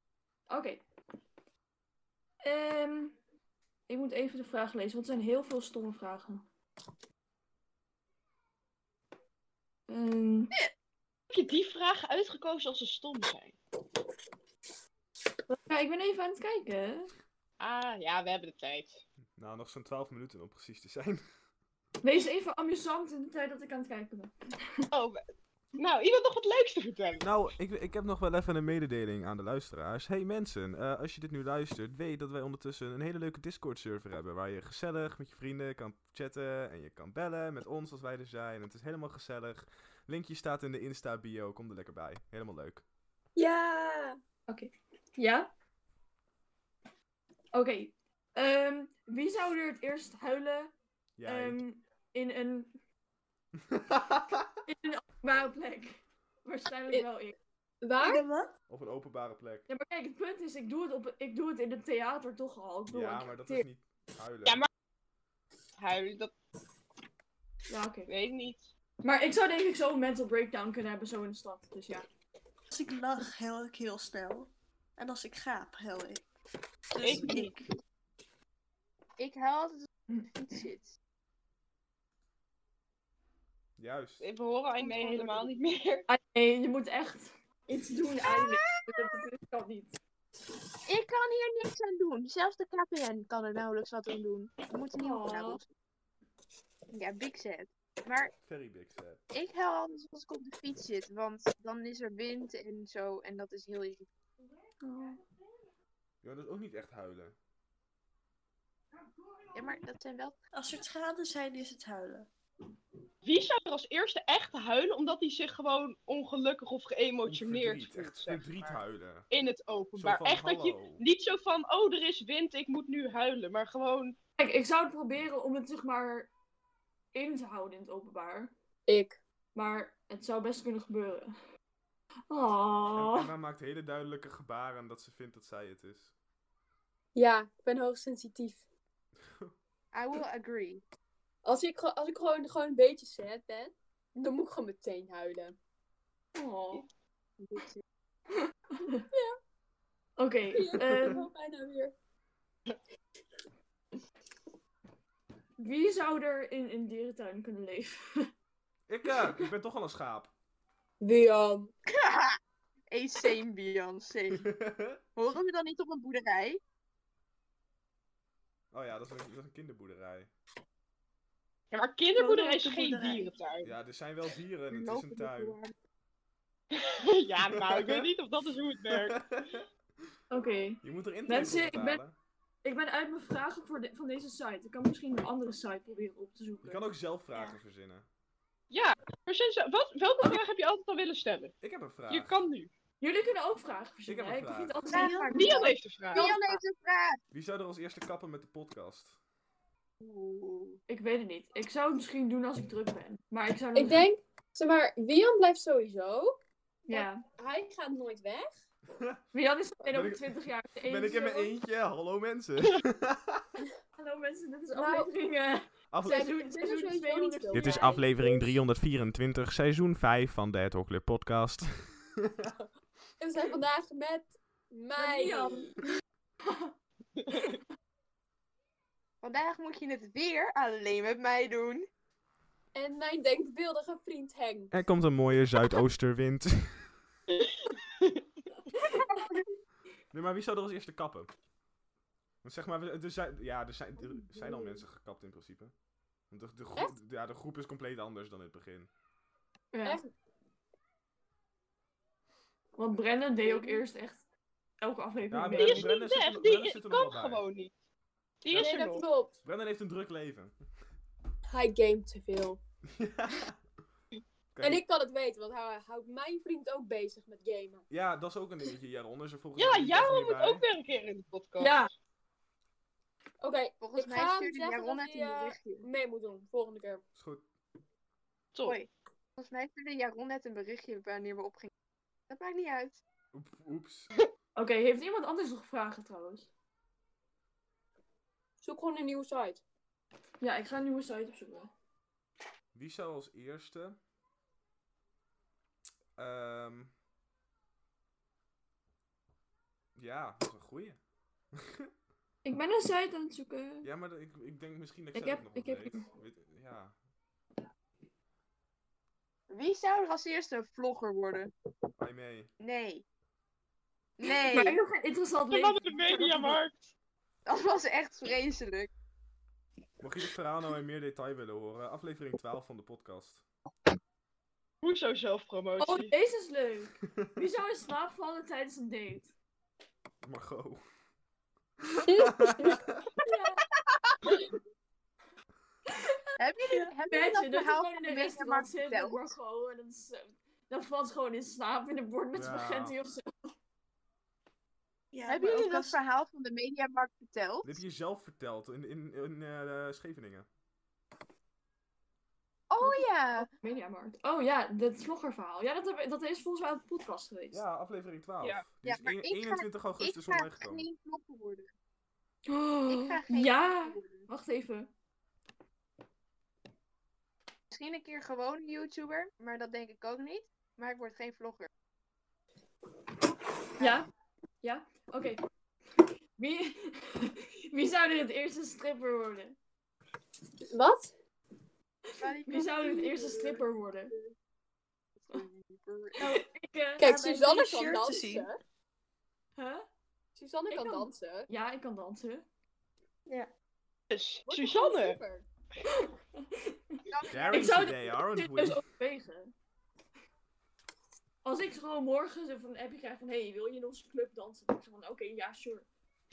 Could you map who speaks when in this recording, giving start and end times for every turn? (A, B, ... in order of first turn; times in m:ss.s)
0:00.5-0:00.8 A
0:02.4-0:03.1 A
0:03.9-0:06.4 A
0:09.9-0:10.5 A
0:11.3-0:13.6 B
0:15.5-0:17.1 A
0:17.6-0:19.0 B
0:19.4-0:21.2 C
0:22.0-0:24.3 A
0:24.9-0:25.2 B
0:25.8-0:27.3 B
0:27.2-0:42.8 C
0:43.4-0:44.2 D
0:44.5-0:45.5 A
0:47.5-0:50.7 A
0:51.2-0:51.6 C
0:51.2-0:52.7 A
0:53.7-0:54.5 C
0:54.6-0:57.4 A
0:57.8-0:58.2 D
0:58.0-0:58.5 E
0:58.7-0:59.7 C
0:59.7-1:03.6 A
1:02.9-1:04.6 C
1:05.8-1:06.3 B
1:07.7-1:08.1 A
1:08.1-1:08.7 B
1:09.0-1:12.1 A
1:12.7-1:16.2 E
1:16.9-1:17.7 E
1:17.0-1:17.5 B
1:19.2-1:21.0 F
1:23.8-1:24.2 C
1:24.2-1:26.1 B
1:24.8-1:25.5 F
1:26.1-1:30.0 A
1:28.2-1:28.8 F
1:30.9-1:35.7 F
1:35.0-1:35.6 A
1:36.9-1:38.3 F
1:38.5-1:39.2 C
1:39.3-1:44.0 F
1:44.8-1:45.2 A
1:46.2-1:47.4 C
1:49.5-1:50.4 F
1:50.5-1:52.3 E
1:53.2-2:04.2 B
1:57.2-1:59.3 C
2:00.0-2:01.0 C
2:04.4-2:06.3 A
2:07.1-2:08.5 A
2:08.9-2:09.2 D
2:09.5-2:11.3 A
2:12.3-2:13.3 A
2:12.9-2:16.1 C
2:17.1-2:18.6 D
2:19.2-2:19.5 C
2:19.9-2:20.8 F
2:21.4-2:25.6 D
2:26.4-2:26.9 A
2:27.4-2:27.8 F
2:28.4-2:29.0 A
2:29.1-2:29.4 D
2:30.2-2:31.2 A
2:30.5-2:31.9 D
2:30.8-2:31.2 C
2:35.6-2:38.3 A
2:38.9-2:40.3 C
2:41.0-2:41.7 D
2:41.9-2:42.4 F
2:42.9-2:44.5 F
2:44.3-2:45.0 C
2:45.2-2:46.6 F
2:48.7-2:50.3 C
2:51.7-2:53.7 B
2:52.2-2:53.3 E
2:53.6-2:55.6 C
2:54.7-2:55.7 F
2:56.7-2:59.3 B
2:57.6-2:58.1 C
2:58.9-2:59.7 C
3:00.3-3:02.0 A
3:00.8-3:02.2 C
3:02.6-3:06.8 A
3:06.6-3:08.1 C
3:08.7-3:11.5 B
3:11.6-3:12.4 C
3:12.1-3:12.7 B
3:13.0-3:16.6 A
3:14.1-3:14.9 C
3:14.9-3:17.2 F
3:15.3-3:16.3 B
3:17.3-3:19.2 C
3:20.0-3:20.8 F
3:20.9-3:24.1 A
3:23.8-3:28.5 D
3:26.9-3:27.2 A
3:29.0-3:29.2 C
3:29.3-3:31.5 A
3:29.8-3:33.5 C
3:34.0-3:38.0 A
3:34.7-3:35.1 D
3:35.9-3:36.3 C
3:36.0-3:38.5 D
3:37.5-3:42.5 C
3:43.2-3:45.8 D
3:45.0-3:45.8 A
3:46.5-3:46.7 A
3:47.2-3:47.6 B
3:49.2-3:51.8 F
3:52.7-3:54.8 D
3:54.7-3:56.9 C
3:57.3-3:58.2 B
3:58.8-3:59.2 A
3:58.9-3:59.4 F
4:00.1-4:01.3 C
4:02.4-4:05.7 C
4:06.3-4:08.9 C
4:09.7-4:10.0 A
4:09.8-4:10.1 D
4:12.8-4:14.2 A
4:13.4-4:13.8 D
4:14.8-4:16.0 A
4:15.3-4:17.5 C
4:15.5-4:17.7 B
4:18.4-4:19.1 B
4:18.5-4:19.4 D
4:19.4-4:20.5 C
4:21.5-4:22.6 D
4:22.9-4:23.6 C
4:24.5-4:24.8 C
4:24.6-4:27.8 D
4:27.9-4:30.7 C
4:29.6-4:31.9 B
4:31.6-4:31.9 A
4:33.4-4:37.0 D
4:33.8-4:35.8 F
4:37.2-4:37.4 C
4:38.5-4:38.8 B
4:38.6-4:41.7 F
4:42.3-4:43.0 F
4:43.3-4:44.1 C
4:44.6-4:46.5 A
4:48.6-4:49.6 D
4:50.4-4:51.7 A
4:52.7-4:54.0 C
4:56.2-4:56.9 C
5:00.0-5:01.0 C
5:01.5-5:01.9 C
5:02.4-5:03.9 A
5:03.8-5:06.9 C
5:05.2-5:06.1 A
5:09.5-5:11.5 F
5:12.0-5:12.5 C
5:12.6-5:13.0 F
5:14.2-5:14.8 F
5:14.2-5:16.6 A
5:15.5-5:16.9 B
5:17.5-5:18.9 F
5:20.0-5:23.4 C
5:24.8-5:26.1 B
5:25.8-5:29.3 A
5:30.2-5:30.8 C
5:32.0-5:33.0 C
5:32.0-5:32.8 D
5:33.2-5:33.6 A
5:33.9-5:34.3 F
5:35.9-5:36.2 A
5:36.4-5:39.3 F
5:37.1-5:43.5 A
5:42.3-5:43.0 C
5:45.1-5:46.0 E
5:45.3-5:47.8 F
5:47.6-5:50.5 C
5:52.7-5:53.5 F
5:52.8-5:57.6 A
5:57.5-6:00.8 C
5:58.8-6:01.7 F
6:02.5-6:04.9 A
6:02.9-6:04.3 F
6:07.7-6:11.7 F
6:13.8-6:14.1 A
6:14.6-6:15.4 A
6:16.0-6:19.6 A
6:20.7-6:21.1 D
6:22.2-6:24.3 F
6:22.4-6:24.2 A
6:25.2-6:26.4 F
6:26.2-6:27.1 A
6:27.0-6:28.6 D
6:27.0-6:28.5 E
6:29.6-6:29.8 A
6:30.4-6:31.5 D
6:30.7-6:32.4 A
6:34.1-6:35.2 B
6:34.5-6:35.5 D
6:35.8-6:39.5 A
6:37.1-6:37.8 F
6:37.3-6:38.8 C
6:41.4-6:45.8 A